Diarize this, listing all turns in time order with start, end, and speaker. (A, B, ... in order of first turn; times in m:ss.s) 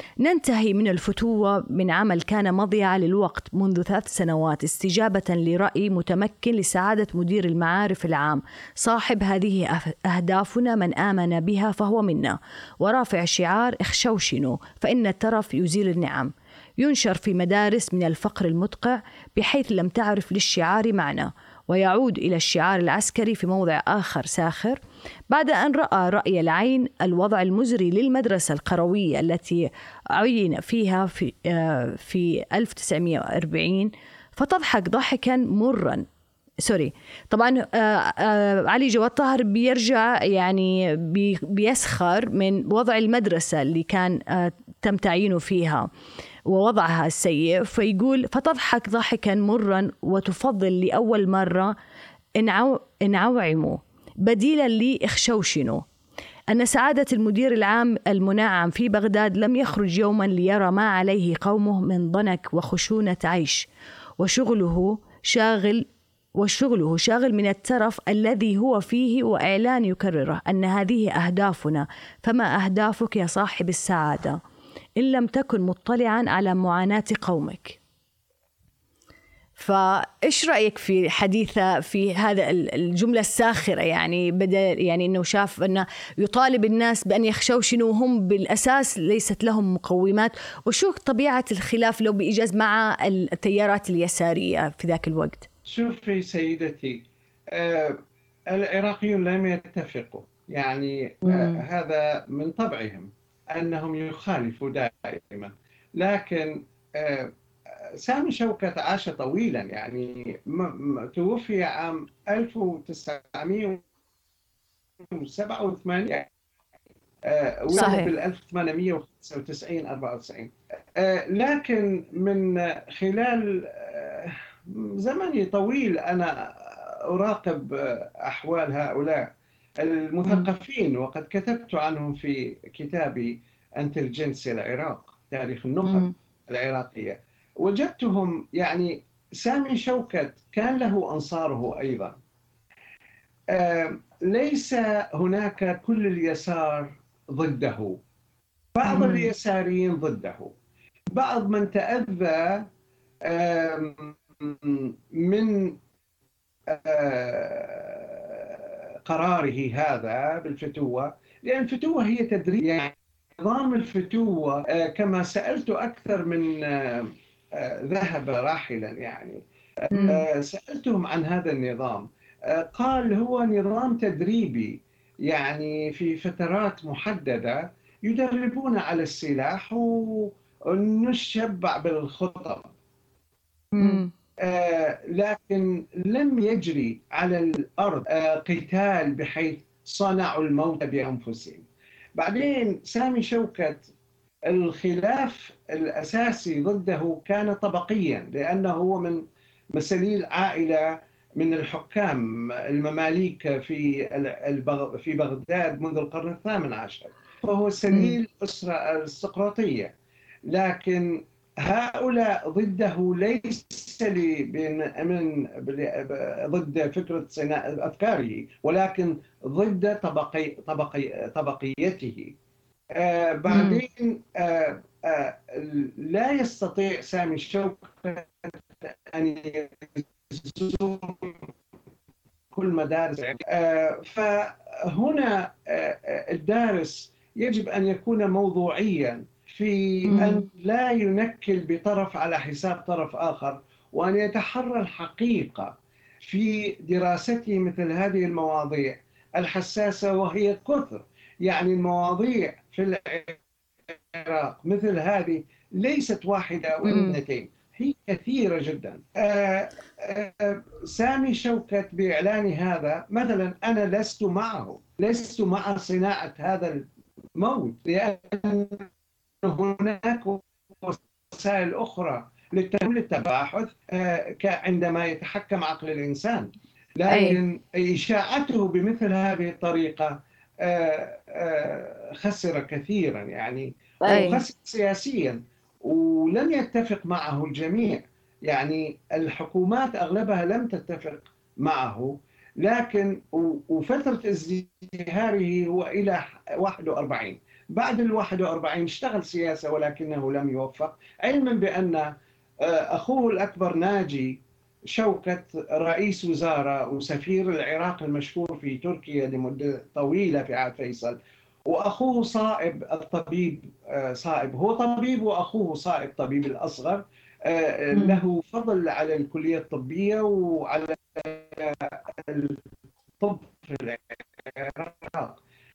0:00.2-0:24.8 A
0:25.3-0:36.0 A
0:36.6-0:45.9 A
0:46.5-0:51.7 A
0:52.4-0:55.8 A
0:56.5-1:03.7 A
1:04.2-1:05.8 A
1:06.4-1:14.4 A
1:15.0-1:17.8 A
1:19.6-1:35.5 A
1:35.7-1:47.3 B
1:41.2-1:41.6 A
1:48.0-1:53.8 B
1:55.1-1:56.3 B
1:57.2-2:09.3 B
1:57.7-1:58.1 A
2:09.8-2:22.2 B
2:15.8-2:16.1 A
2:23.5-2:28.0 B
2:28.7-2:30.5 B
2:28.9-2:29.3 A
2:31.1-2:32.7 B
2:33.2-2:35.8 B
2:36.7-3:02.7 B
2:49.9-2:50.2 A
3:03.8-3:04.1 A
3:04.4-3:11.6 B
3:12.2-3:13.9 B
3:14.5-3:19.2 B
3:19.7-3:29.9 B
3:30.5-3:42.3 B
3:42.9-3:51.5 B
3:43.5-3:43.8 A
3:52.5-4:26.8 B
4:00.1-4:00.4 A
4:16.8-4:17.2 A
4:27.4-4:28.9 B
4:29.4-5:22.6 B
4:37.1-4:37.4 A
4:44.1-4:44.4 A
5:18.0-5:18.2 A
5:23.2-5:25.4 B